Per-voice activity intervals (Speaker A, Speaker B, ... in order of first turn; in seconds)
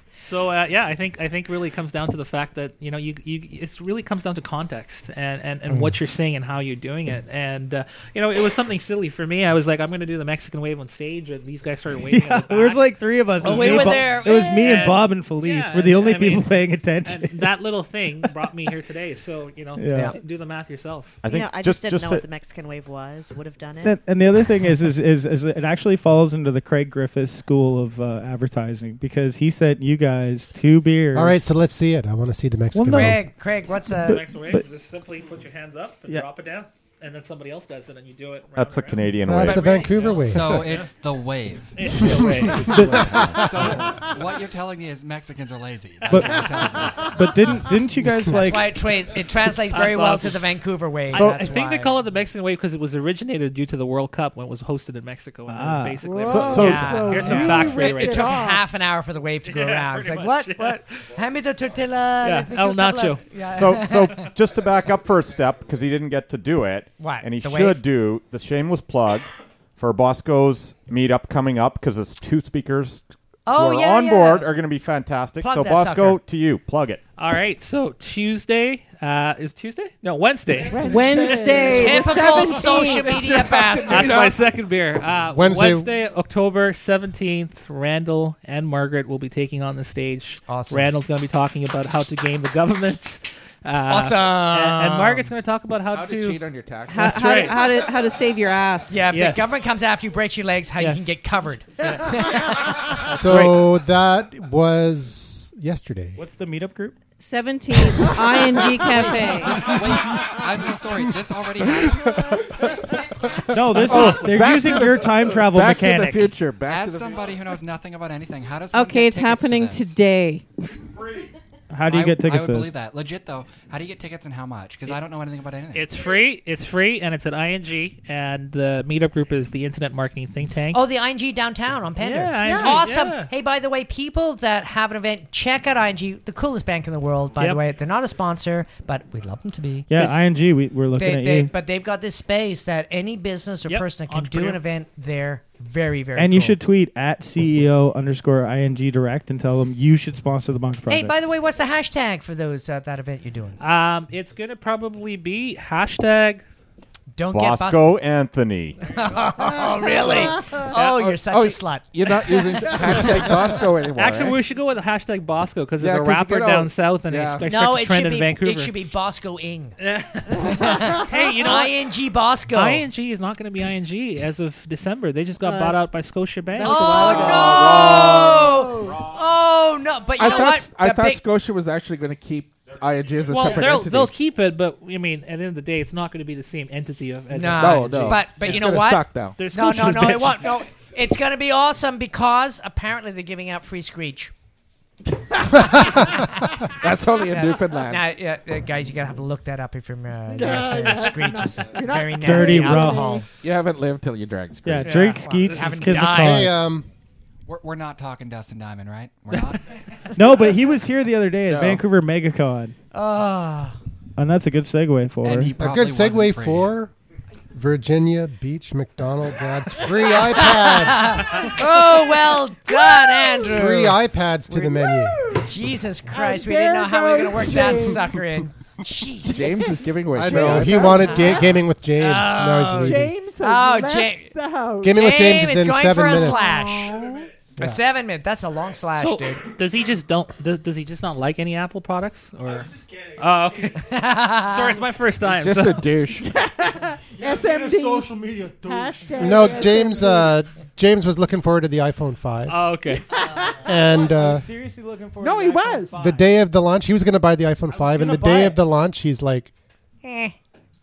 Speaker A: 0.2-21.2, 34.1-40.9, 41.7-43.0, 46.1-46.6, 49.7-50.4, 51.1-58.3, 59.4-61.0, 62.2-63.2, 77.2-81.3, 83.8-96.4, 97.0-97.6, 99.1-99.5, 100.8-101.2, 101.8-102.4, 113.9-114.3, 125.7-130.8, 132.0-133.3, 143.7-144.6, 153.6-156.4, 162.9-163.2, 163.9-168.7, 169.8-171.8, 172.5-177.4, 183.2-188.7, 189.4-190.5, 205.4-205.8, 238.9-245.9, 252.5-253.1
Speaker B: 12.1-17.4, 19.8-20.2, 23.8-31.5, 32.7-33.3, 34.1-34.6, 42.6-43.4, 46.1-48.8, 55.5-56.9, 106.2-106.9, 113.5-116.3, 121.7-122.7, 139.9-141.5, 146.2-151.1, 202.2-203.2, 204.6-206.6, 210.1-212.8, 214.2-215.5, 242.5-243.1, 247.2-249.6, 253.9-256.2, 257.7-258.6
Speaker C: 13.4-14.9, 32.9-34.2, 48.2-51.9, 56.5-64.2, 67.0-67.8, 73.5-74.5, 75.4-76.2, 81.7-84.3, 90.5-90.9, 93.9-95.3, 98.9-103.0, 130.7-139.9, 140.9-146.6, 150.9-153.6, 157.1-158.0, 158.9-161.9, 167.4-169.8, 170.4-172.8, 176.6-181.2, 187.3-194.3, 195.7-196.4, 197.2-203.2, 204.8-206.5, 212.9-213.8, 220.1-223.9, 225.3-229.6, 230.3-234.3, 234.9-237.0, 237.6-239.4, 243.8-244.8, 260.0-260.3
Speaker D: 21.2-22.2, 38.5-39.9, 51.1-51.4, 56.3-57.2, 63.5-77.0, 157.3-158.8
Speaker E: 21.2-24.0
Speaker F: 31.1-33.2, 39.2-40.7, 42.0-43.7, 85.3-85.9, 103.0-106.2, 206.1-206.9, 215.6-216.9, 217.5-221.4, 223.4-225.2, 230.1-233.1, 234.8-236.4, 249.2-252.6, 253.6-254.4, 256.0-259.5
Speaker G: 40.2-41.7, 43.2-47.1, 108.9-112.5, 116.7-119.9, 121.9-125.9, 207.5-209.6, 215.2-216.7
Speaker H: 56.0-58.6, 80.7-82.8, 132.4-132.8, 159.5-160.6, 177.1-179.0, 200.3-203.2, 222.9-223.4, 224.5-225.5, 226.1-228.3, 229.4-231.6, 232.8-235.1, 236.1-237.3, 246.3-250.4, 253.1-253.7, 255.2-256.0
Speaker I: 80.8-83.1, 96.9-99.0, 107.2-109.7, 118.7-120.4, 175.4-175.8, 176.6-176.9
Speaker J: 83.1-84.4, 95.9-97.6, 113.8-117.3, 160.0-164.4, 165.8-167.4, 176.9-178.6, 180.1-184.1, 187.6-189.4, 196.7-198.1, 203.4-205.1, 211.4-211.8, 229.2-231.1, 245.2-246.3